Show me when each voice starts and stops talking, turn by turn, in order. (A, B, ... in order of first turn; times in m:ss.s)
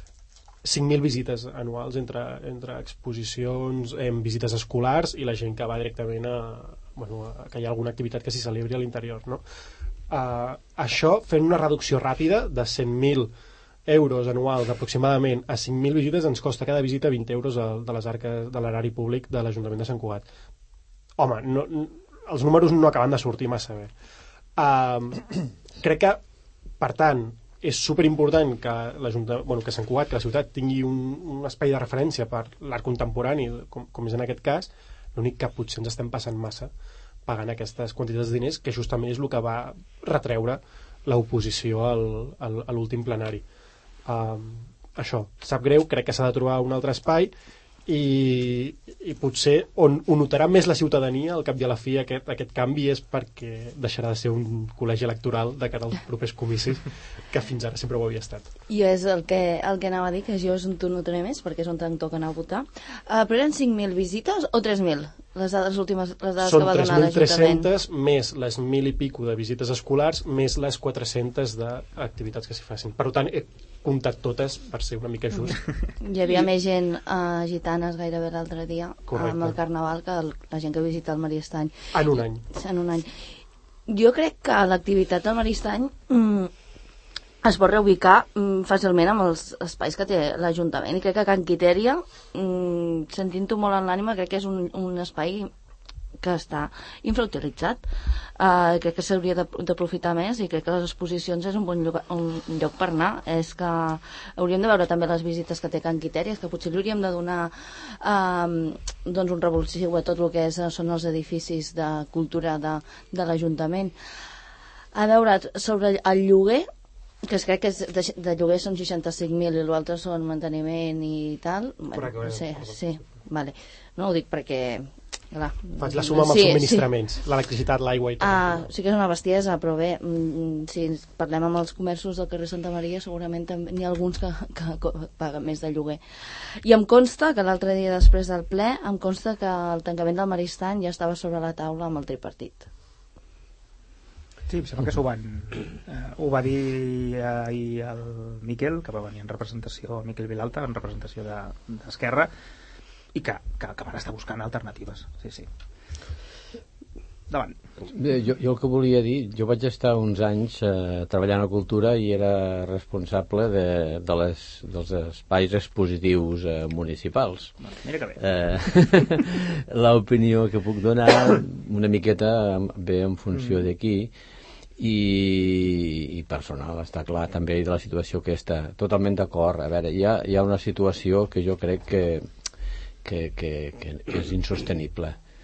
0:00.6-0:09.4 A
0:10.1-0:13.3 A
0:13.9-0:20.2 A
0:21.2-0:23.9 A
0:24.6-0:26.2 A
0:26.8-0:36.7 A
0:37.2-0:43.4 A
0:44.0-0:47.3 A
0:47.9-0:58.5 A
0:58.7-1:07.7 B
1:06.4-1:15.6 A
1:15.3-1:21.7 B
1:19.1-1:19.6 A
1:21.9-1:22.4 A
1:22.5-1:23.2 B
1:23.9-1:26.5 B
1:27.4-1:35.5 B
1:36.2-1:37.8 B
1:38.4-1:53.9 B
1:54.9-1:56.7 B
1:57.2-2:06.9 B
2:01.9-2:02.9 A
2:05.8-2:08.6 A
2:08.2-2:16.0 B
2:16.6-2:22.7 B
2:24.5-2:32.3 C
2:33.1-2:35.5 C
2:37.3-2:37.6 C
2:37.8-2:47.5 D
2:47.6-2:48.2 C
2:48.2-2:54.1 D
2:54.8-3:02.2 D
3:03.0-3:05.2 D